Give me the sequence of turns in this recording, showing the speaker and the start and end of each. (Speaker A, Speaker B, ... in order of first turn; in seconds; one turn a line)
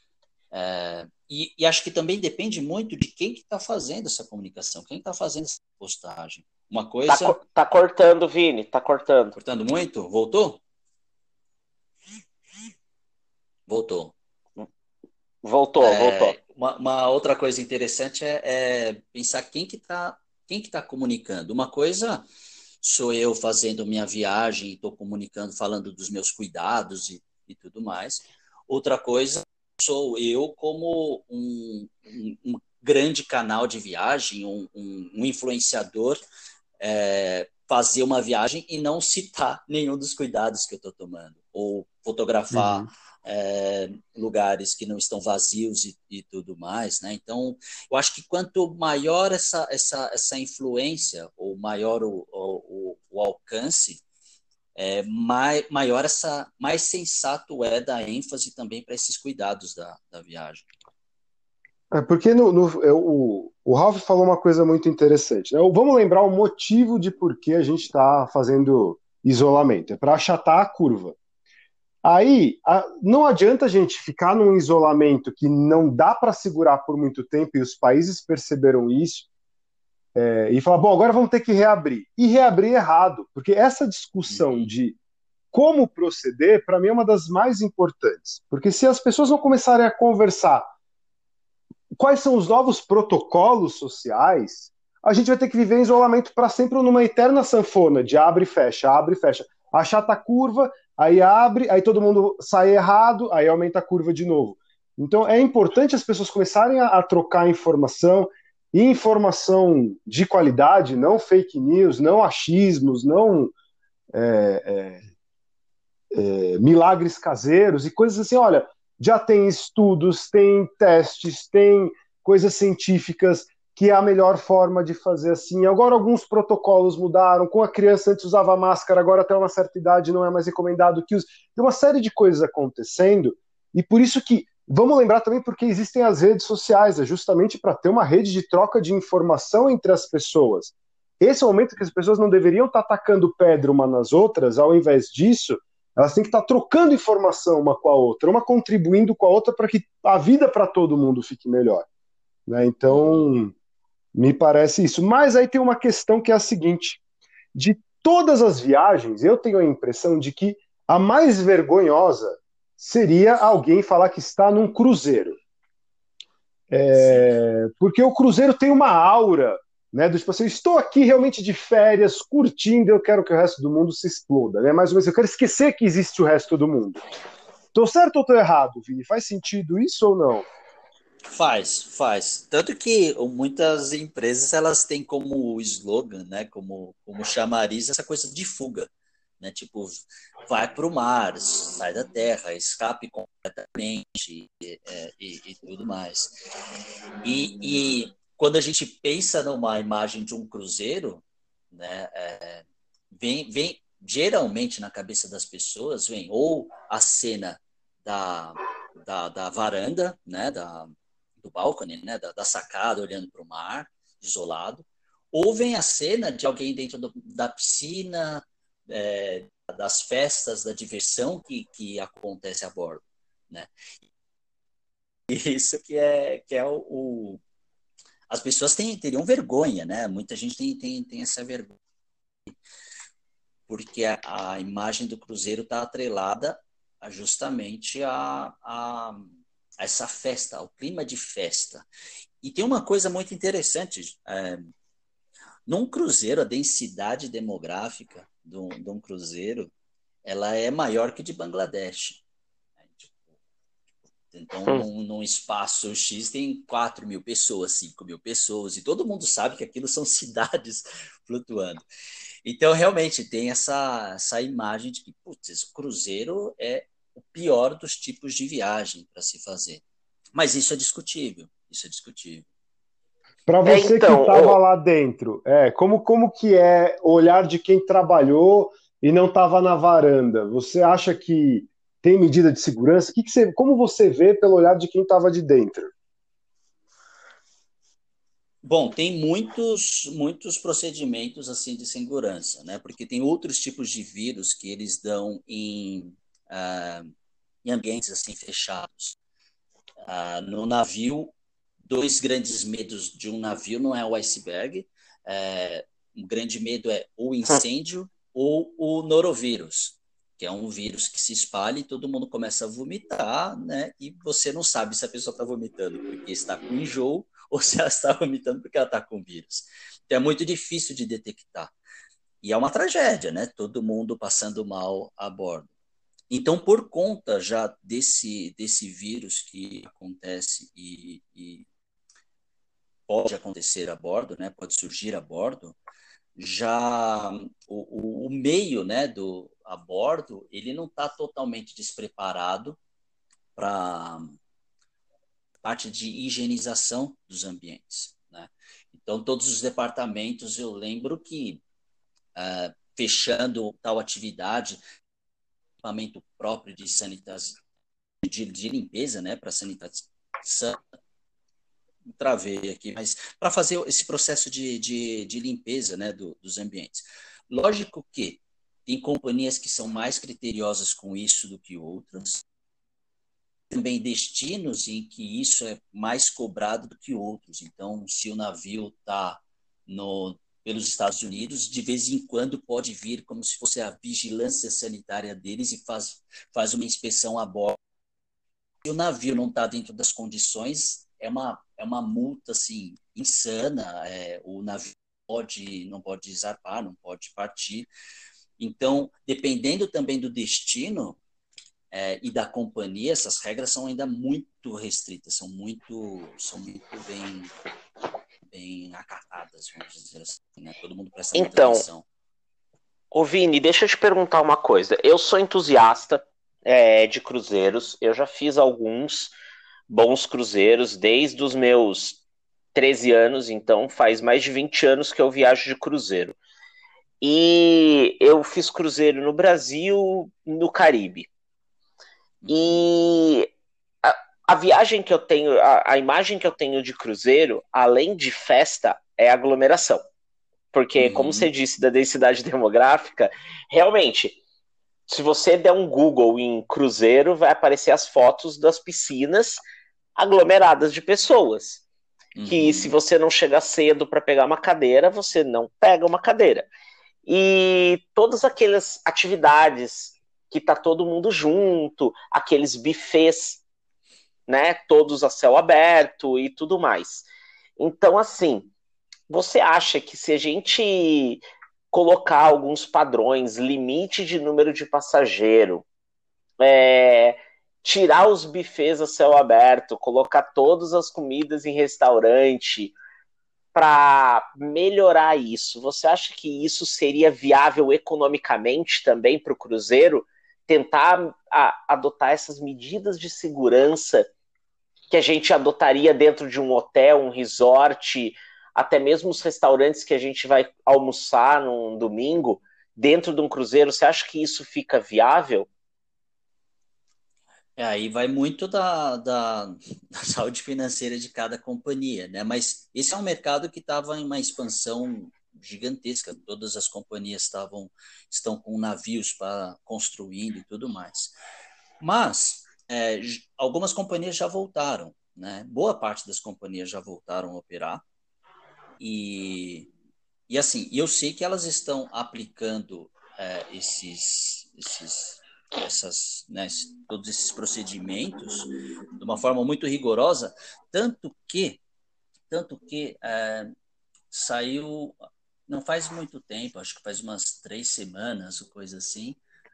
Speaker A: 0.5-7.4
Speaker B: 7.1-9.4
Speaker A: 9.4-10.6
Speaker A: 13.7-14.1
Speaker B: 15.4-16.4
Speaker A: 15.8-22.2
Speaker A: 22.8-36.2
Speaker A: 36.8-54.0
Speaker C: 42.5-42.9
Speaker A: 54.8-60.7
Speaker C: 61.9-71.2
Speaker C: 72.0-79.3
Speaker C: 80.2-85.0
Speaker A: 84.3-84.7
Speaker C: 85.5-90.7
Speaker C: 92.0-113.5
Speaker C: 114.1-115.0
Speaker C: 116.1-151.9
Speaker C: 152.5-153.5
Speaker A: 152.9-153.2
Speaker C: 154.2-157.0
Speaker C: 157.6-165.4
Speaker C: 166.7-177.0
Speaker A: 166.9-167.3
Speaker C: 177.7-180.5
Speaker A: 181.3-188.9
Speaker A: 189.4-196.3
Speaker A: 197.2-223.7
Speaker A: 225.3-227.4
Speaker A: 228.3-231.8
Speaker A: 233.7-241.9
Speaker A: 242.4-244.7
Speaker A: 245.7-249.7
Speaker A: 250.2-252.2
Speaker A: 252.8-253.2
Speaker A: 254.3-261.9
Speaker A: 262.4-269.8
Speaker A: 270.3-272.4
Speaker C: 273.5-285.9
Speaker B: 273.6-274.6
Speaker A: 288.6-297.1
Speaker A: 297.6-299.2
Speaker A: 300.0-301.3
Speaker A: 301.9-321.7
Speaker A: 322.4-325.7
Speaker A: 326.3-331.6
Speaker A: 333.1-335.8
Speaker A: 336.4-342.8
Speaker A: 343.6-344.4
Speaker A: 345.6-351.6
Speaker A: 352.4-354.8
Speaker A: 355.8-357.6
Speaker A: 358.2-360.8
Speaker A: 362.1-372.4
Speaker A: 373.7-387.8
Speaker A: 388.8-397.9
Speaker A: 398.6-401.2
Speaker A: 401.9-407.5
Speaker A: 408.5-412.1
Speaker B: 411.4-411.8
Speaker B: 413.1-419.3
Speaker B: 419.9-422.2
Speaker B: 422.7-426.4
Speaker B: 427.2-431.3
Speaker A: 432.4-432.9
Speaker B: 432.5-433.5
Speaker B: 434.0-440.0
Speaker B: 440.7-444.4
Speaker A: 441.0-441.5
Speaker B: 445.1-449.6
Speaker B: 450.2-451.8
Speaker A: 452.4-452.9
Speaker B: 452.5-456.7
Speaker B: 457.3-463.6
Speaker B: 464.5-467.3
Speaker B: 467.8-468.7
Speaker B: 469.3-475.9
Speaker B: 476.6-482.9
Speaker B: 483.7-494.3
Speaker B: 495.1-505.7
Speaker A: 507.8-521.4
Speaker A: 522.0-528.0
Speaker A: 529.0-529.9
Speaker A: 530.5-541.8
Speaker A: 542.5-543.7
Speaker A: 544.3-545.2
Speaker A: 545.7-549.4